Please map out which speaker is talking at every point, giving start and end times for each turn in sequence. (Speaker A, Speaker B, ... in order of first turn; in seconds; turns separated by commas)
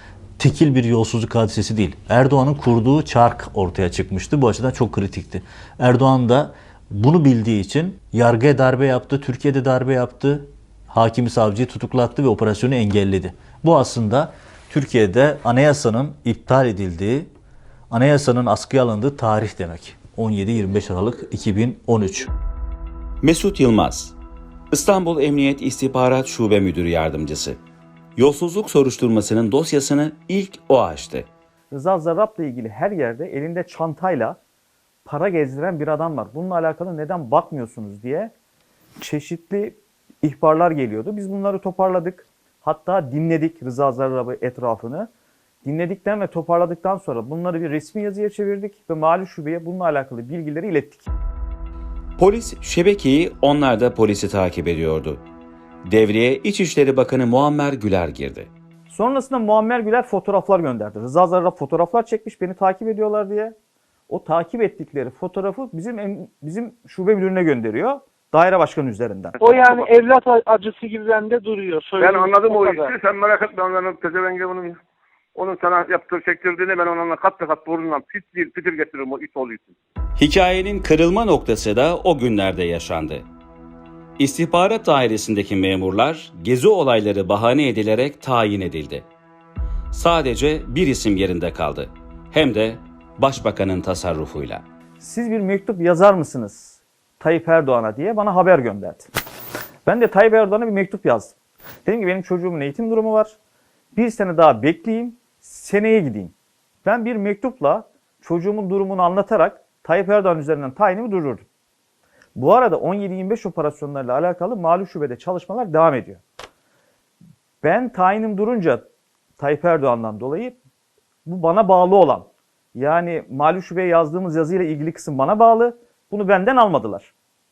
Speaker A: 0.4-17.3, Speaker A: 17.9-22.3, Speaker B: 23.2-24.1, Speaker B: 24.7-27.6, Speaker B: 28.2-31.3, Speaker C: 31.7-34.4, Speaker C: 35.1-38.3, Speaker C: 39.0-45.1, Speaker C: 45.6-51.1, Speaker B: 52.2-55.2, Speaker B: 55.9-58.5, Speaker C: 58.9-63.5, Speaker C: 64.1-69.4, Speaker D: 69.4-73.0, Speaker E: 69.5-69.9, Speaker E: 72.0-74.8, Speaker E: 75.3-79.8, Speaker B: 80.2-83.3, Speaker B: 84.2-89.1, Speaker B: 89.9-94.6, Speaker C: 95.0-99.1, Speaker C: 99.9-103.4, Speaker C: 104.0-106.3, Speaker C: 106.8-111.5, Speaker C: 112.4-116.2, Speaker C: 117.6-118.9, Speaker C: 119.4-120.6, Speaker C: 121.3-127.1